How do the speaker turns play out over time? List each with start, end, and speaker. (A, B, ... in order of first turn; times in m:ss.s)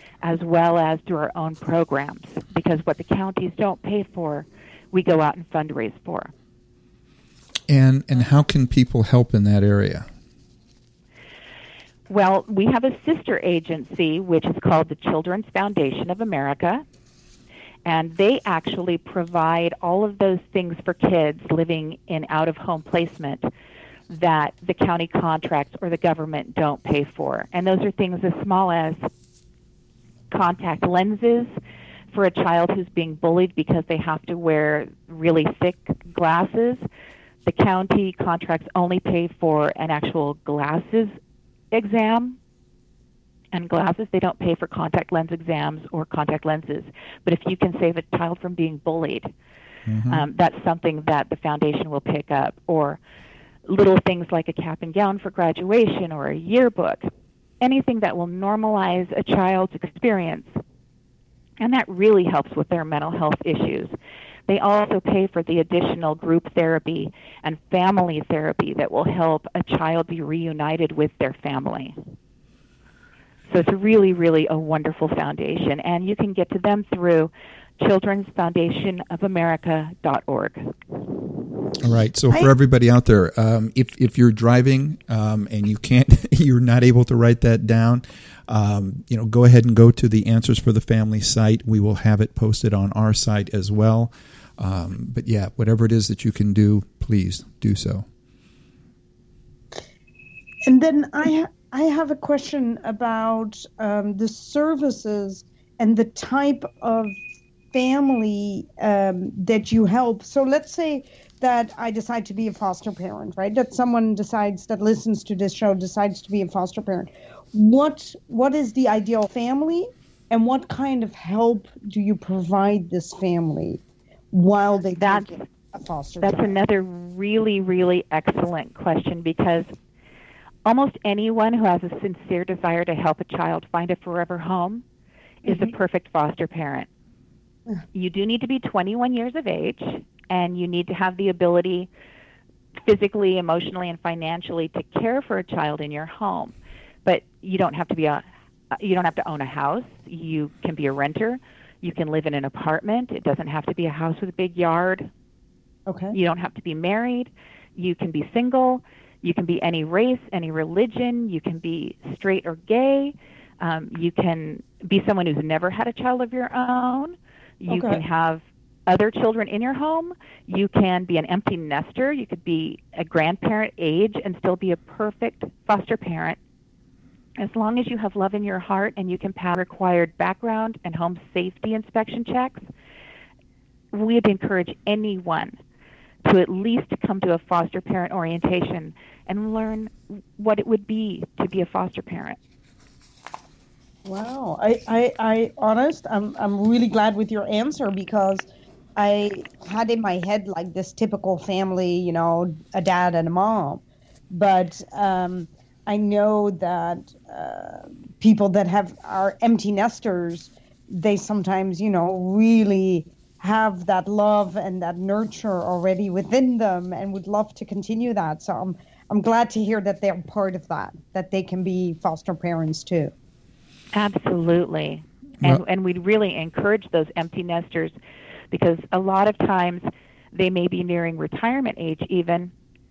0:00.2-0:06.3 A
0:07.7-0:10.1 B
0:12.1-0:16.8 A
0:17.8-0:23.5 A
0:24.1-0:29.1 A
0:30.3-0:31.6 A
0:32.1-0:36.8 A
0:37.4-0:41.1 A
0:41.7-0:42.4 A
0:43.5-0:49.3 A
0:49.9-0:50.3 B
0:50.1-0:53.0 A
0:53.6-1:00.5 A
1:01.6-1:03.9 A
1:04.5-1:12.0 A
1:13.5-1:20.7 A
1:21.8-1:38.0 B
1:40.6-1:47.2 C
1:47.7-2:06.5 C
2:05.0-2:05.4 A
2:06.2-2:09.7 A
2:10.6-2:14.8 A
2:15.4-2:16.9 A
2:15.5-2:15.7 C
2:17.9-2:21.9 A
2:22.8-2:26.5 A
2:27.0-2:35.1 A
2:35.9-2:36.1 C
2:36.1-2:56.4 A
2:47.7-2:48.0 C
2:57.4-3:02.6 A
3:03.9-3:05.6 A
3:06.2-3:12.4 A
3:14.0-3:43.1 C
3:43.9-3:47.9 A
3:48.5-3:52.5 A